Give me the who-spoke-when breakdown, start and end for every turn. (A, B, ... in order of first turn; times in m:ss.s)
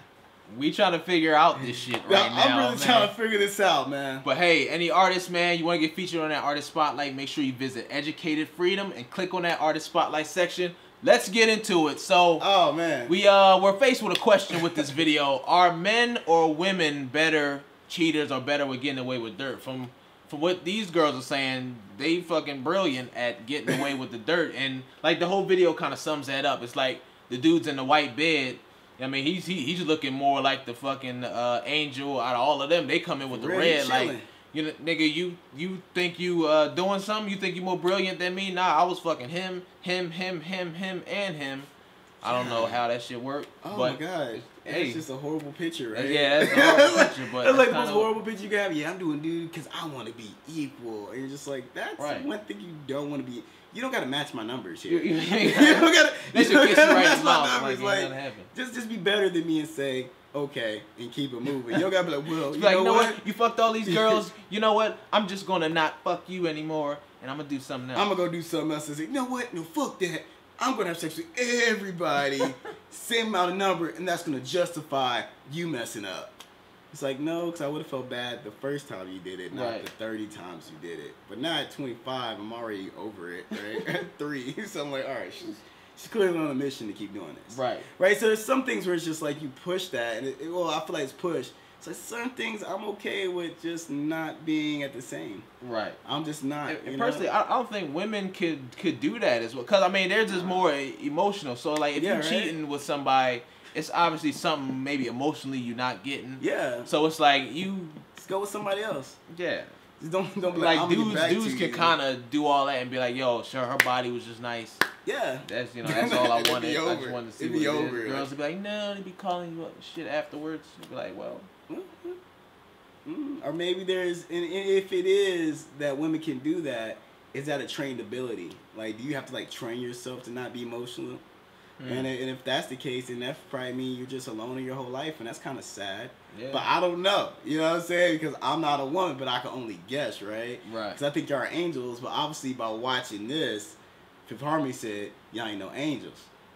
0:00.5-0:03.1 A
0:01.6-0:04.2 B
0:04.2-0:12.4 A
0:12.4-0:13.1 B
0:13.0-0:41.7 A
0:14.5-0:14.9 B
0:33.3-0:34.3 B
0:42.2-0:45.0 A
0:42.2-0:42.8 B
0:43.6-1:03.2 B
0:45.9-0:48.1 A
0:52.0-0:52.3 A
0:54.9-0:58.5 A
1:02.5-1:08.1 A
1:03.8-1:04.2 B
1:07.9-1:16.4 B
1:16.9-1:35.5 B
1:19.5-1:19.8 A
1:27.5-1:27.8 A
1:35.6-1:36.0 A
1:36.0-1:37.3 B
1:36.6-1:48.0 A
1:40.3-1:40.6 B
1:41.9-1:42.6 B
1:46.4-1:46.9 B
1:48.1-1:49.2 B
1:49.3-1:49.7 A
1:50.0-1:52.0 B
1:50.5-1:54.8 A
1:55.0-1:58.3 B
1:55.4-2:01.5 A
2:01.7-2:02.2 B
2:03.0-2:11.2 B
2:11.8-2:12.1 A
2:11.8-2:26.3 B
2:16.3-2:16.7 A
2:20.6-2:21.0 A